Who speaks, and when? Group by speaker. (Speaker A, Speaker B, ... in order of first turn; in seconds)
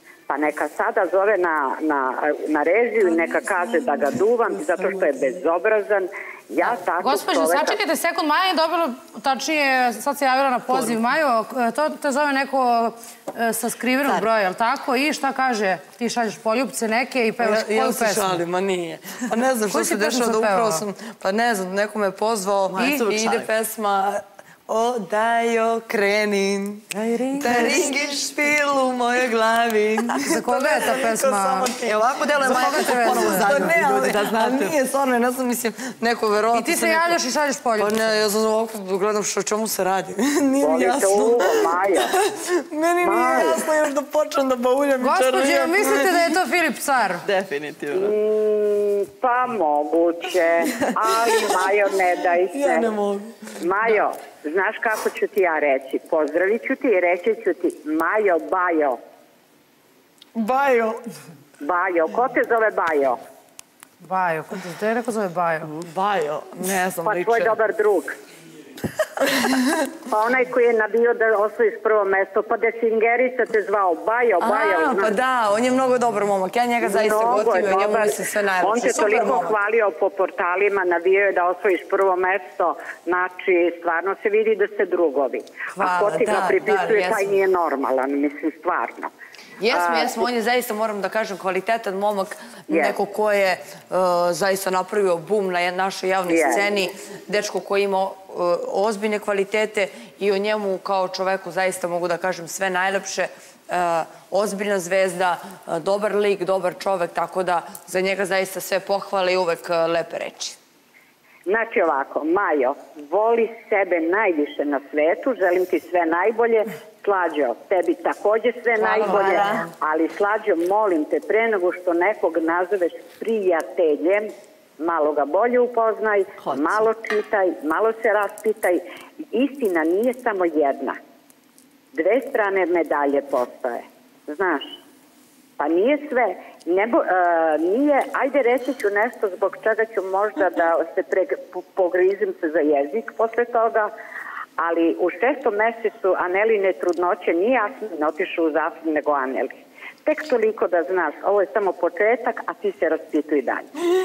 Speaker A: 0.3-7.8, 40.6-42.1, 43.0-43.6, 47.9-52.9, 53.6-59.0, 61.6-63.2, 67.0-68.2, 70.1-75.2, 76.8-89.1, 89.7-90.3, 92.7-93.0, 96.3-96.8, 111.5-124.3, 124.8-128.8, 129.3-131.0, 131.9-134.7, 135.6-143.9, 144.6-153.7
Speaker B: 7.0-18.4, 19.7-20.9, 22.8-23.0, 26.9-27.9, 30.2-31.8, 32.4-33.7, 36.5-38.2, 45.0-47.3, 64.0-65.8
Speaker C: 10.7-11.0, 22.7-23.5, 27.5-28.1, 31.9-34.8, 47.2-48.2, 119.0-119.7, 126.4-126.9
Speaker D: 17.4-37.2, 37.8-46.2, 52.5-54.0, 60.4-61.0, 65.8-67.5, 69.2-69.9, 74.4-79.6, 85.7-87.3, 89.6-110.6, 118.8-119.7